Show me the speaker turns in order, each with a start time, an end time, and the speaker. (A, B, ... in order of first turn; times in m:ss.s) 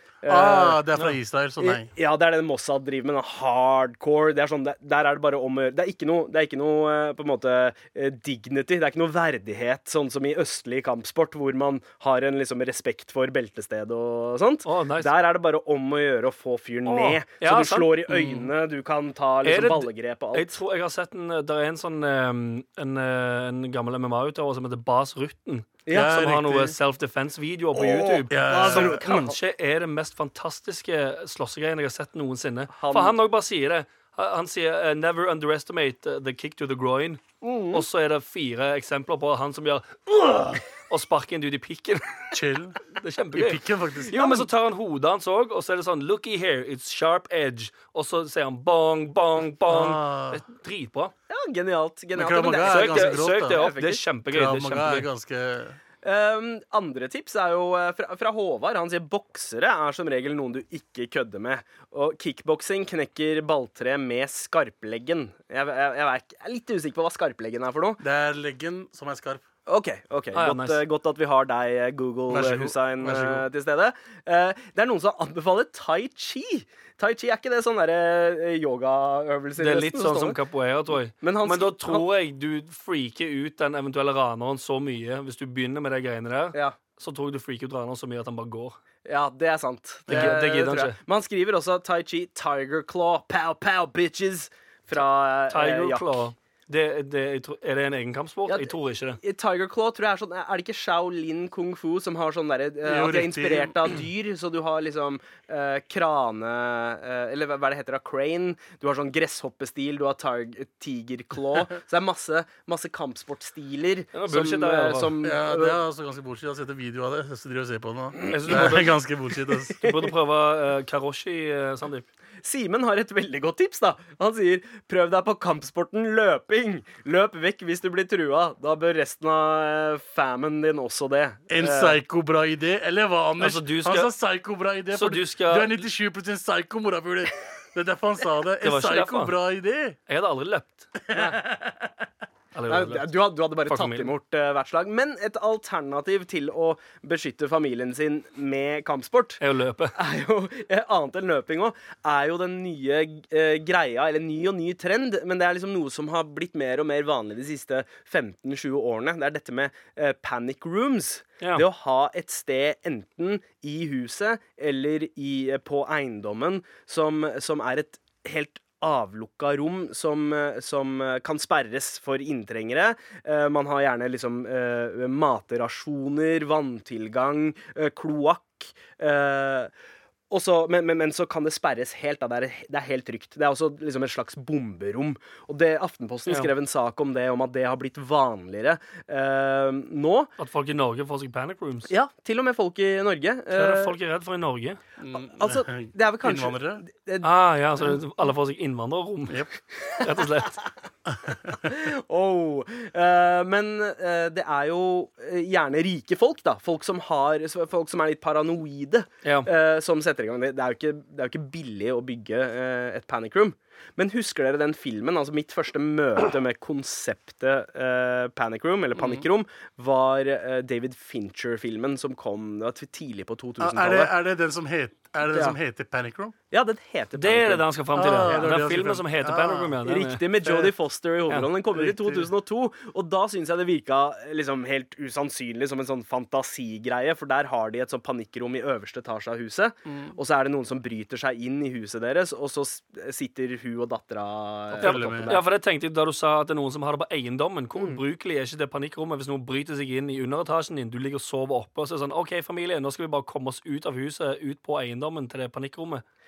0:00.2-0:01.1 A
0:00.3-0:01.9 B
0:01.6-0:20.6 A
0:14.6-0:15.1 C
0:16.8-0:18.0 C
0:18.1-0:18.5 B
0:19.4-0:42.4 C
0:25.8-0:26.2 A
0:25.9-0:26.8 B
0:27.8-0:29.4 A
0:28.3-0:29.0 B
0:32.7-0:33.2 A
0:37.4-0:37.8 A
0:42.3-0:42.8 B
0:42.9-0:51.1 C
0:43.3-0:44.4 B
0:44.1-0:44.4 A
0:49.7-0:50.4 B
0:51.3-0:54.0 A
0:52.1-0:53.6 B
0:52.6-0:55.1 C
0:54.3-0:55.8 B
0:56.0-1:08.0 A
1:08.0-1:09.4 B
1:09.7-1:20.4 A
1:10.3-1:10.8 C
1:12.3-1:13.4 B
1:19.6-1:28.8 C
1:21.2-1:22.1 A
1:29.0-1:36.2 A
1:30.1-1:30.4 B
1:30.1-1:31.0 C
1:35.5-1:39.2 C
1:38.5-1:55.8 A
1:42.8-1:43.9 B
1:54.1-1:55.1 C
1:55.2-1:59.8 B
1:58.2-1:58.6 A
1:58.3-1:59.0 C
1:59.7-2:02.0 C
2:02.4-2:12.0 A
2:11.5-2:20.0 B
2:13.4-2:14.1 C
2:14.9-2:15.8 C
2:18.6-2:19.4 C
2:20.1-2:20.9 C
2:21.1-2:21.9 B
2:21.1-2:21.4 A
2:22.5-2:24.1 C
2:22.7-2:29.4 A
2:29.4-2:30.0 C
2:29.9-2:59.7 A
3:00.3-3:10.3 A
3:10.4-3:11.9 C
3:11.9-3:13.9 A
3:13.5-3:14.8 C
3:15.0-3:16.8 B
3:15.1-3:17.3 A
3:17.2-3:20.6 C
3:21.1-3:21.7 B
3:21.5-3:44.1 A
3:39.0-3:39.2 B
3:43.6-3:46.3 B
3:45.3-3:45.6 A
3:46.5-3:48.5 A
3:47.2-3:50.2 C
3:47.9-3:49.8 B
3:49.8-4:05.4 A
3:50.4-3:50.7 B
3:51.7-3:52.3 B
3:59.8-4:00.2 B
4:04.8-4:16.0 C
4:04.8-4:05.4 B